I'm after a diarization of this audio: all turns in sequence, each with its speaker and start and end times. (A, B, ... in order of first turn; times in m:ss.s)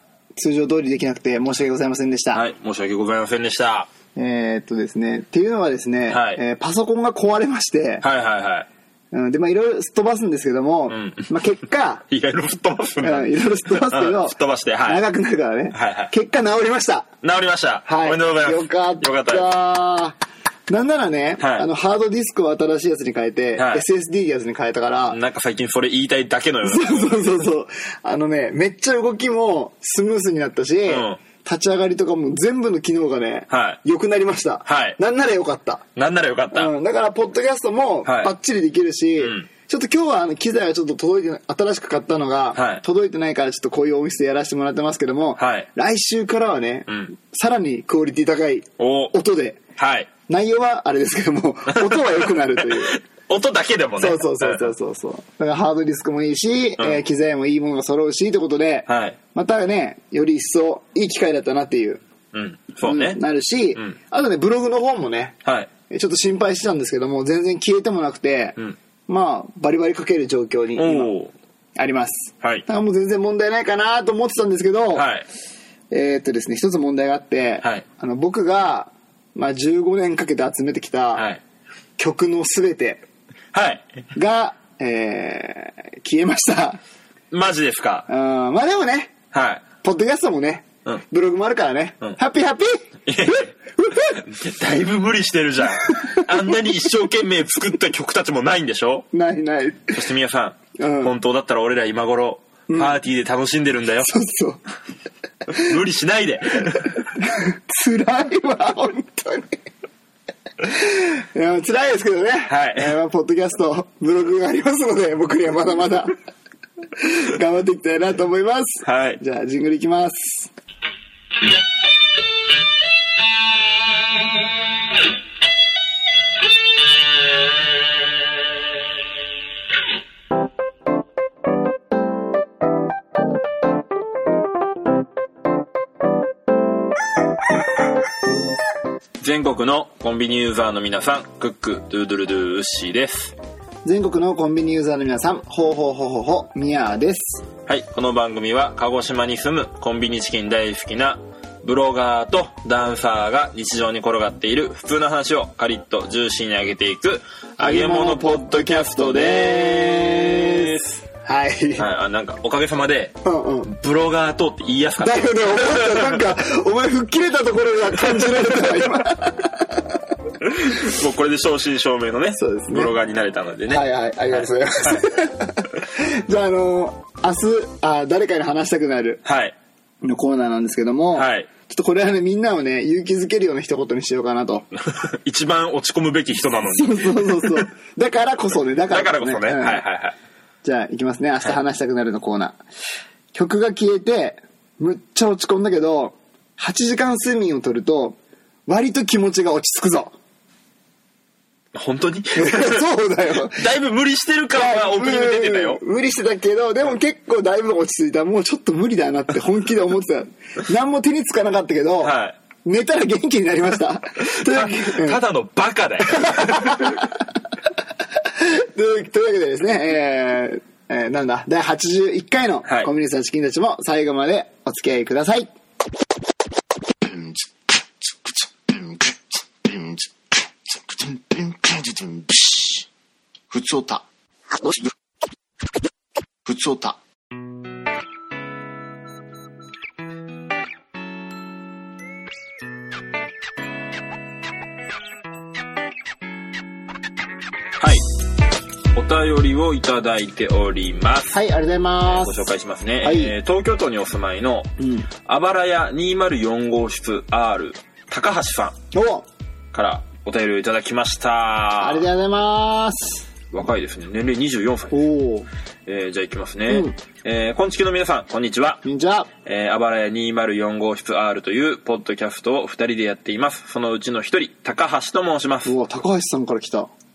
0:00.4-0:02.4 A
0:02.3-0:03.9 B
0:04.2-0:08.0 A
0:06.1-0:06.4 B
0:08.0-0:08.7 B
0:09.1-0:12.0 A
0:10.9-0:11.3 B
0:12.1-0:15.0 B
0:13.0-0:14.3 A
0:14.9-0:17.1 A
0:15.7-0:16.1 B
0:17.2-0:19.5 B
0:17.9-0:20.2 A
0:20.7-0:25.2 A
0:21.4-0:21.7 B
0:23.6-0:23.8 B
0:25.1-0:27.2 B
0:26.6-0:35.8 A
0:30.9-0:31.2 B
0:33.5-0:33.8 B
0:34.6-0:35.0 B
0:36.0-0:36.7 B
0:36.5-0:49.6 A
0:38.0-0:38.3 B
0:39.2-0:39.5 B
0:42.5-0:42.8 B
0:45.4-0:45.7 B
0:48.8-0:49.1 B
0:49.8-0:50.1 B
0:50.3-0:53.0 A
0:51.7-0:54.7 B
0:54.0-1:02.0 A
0:58.9-0:59.2 B
1:02.3-1:03.2 B
1:02.8-1:05.4 A
1:05.4-1:05.7 B
1:05.9-1:08.6 A
1:09.1-1:11.1 A
1:10.8-1:11.3 B
1:11.8-1:15.1 A
1:15.0-1:15.3 B
1:15.9-1:21.3 A
1:22.0-1:23.0 A
1:23.5-1:23.8 B
1:24.2-1:26.8 A
1:27.3-1:28.1 B
1:28.1-1:29.1 A
1:29.3-1:29.6 B
1:29.8-1:34.2 A
1:33.1-1:33.5 B
1:34.2-1:39.1 B
1:39.1-1:40.0 A
1:39.9-1:44.1 B
1:40.8-1:41.1 A
1:42.7-1:43.0 A
1:44.0-1:44.6 A
1:45.5-1:46.9 B
1:47.2-1:49.6 A
1:50.6-1:56.1 A
1:52.5-1:52.9 B
1:57.0-2:00.5 A
1:58.8-1:59.2 B
2:19.2-2:23.4 B
2:23.8-2:27.4 A
2:27.7-2:41.0 B
2:37.6-2:41.9 A
2:41.8-2:46.3 B
2:43.2-2:43.7 A
2:45.0-2:49.6 A
2:48.0-2:48.9 B
2:50.4-2:55.0 B
2:52.4-2:52.9 A
2:53.7-2:59.2 A
2:59.2-2:59.6 B
3:00.0-3:04.7 A
3:01.1-3:01.5 B
3:04.9-3:07.7 B
3:06.7-3:09.8 A
3:08.9-3:10.2 B
3:10.6-3:12.6 A
3:13.3-3:20.2 A
3:21.7-3:22.8 B
3:22.3-3:23.6 A
3:23.6-3:25.8 B
3:24.5-3:35.2 A
3:32.0-3:32.4 B
3:34.4-3:37.0 B
3:36.2-3:37.0 A
3:38.4-3:45.5 A
3:47.0-3:47.5 C
3:48.7-3:50.1 C
3:50.9-3:52.8 C
3:53.5-3:54.0 C
3:56.4-3:57.0 C
4:09.0-4:11.4 B
4:11.3-4:12.5 A
4:12.0-4:14.7 B
4:13.0-4:13.3 A
4:14.8-4:15.1 A
4:15.2-4:18.8 B
4:18.9-4:19.2 A
4:19.7-4:22.1 B
4:21.8-4:23.2 A
4:23.5-4:25.0 B
4:24.9-4:25.5 A
4:25.9-4:28.8 B
4:26.7-4:26.9 A
4:28.8-4:29.3 A
4:29.4-4:35.7 B
4:35.6-4:36.9 A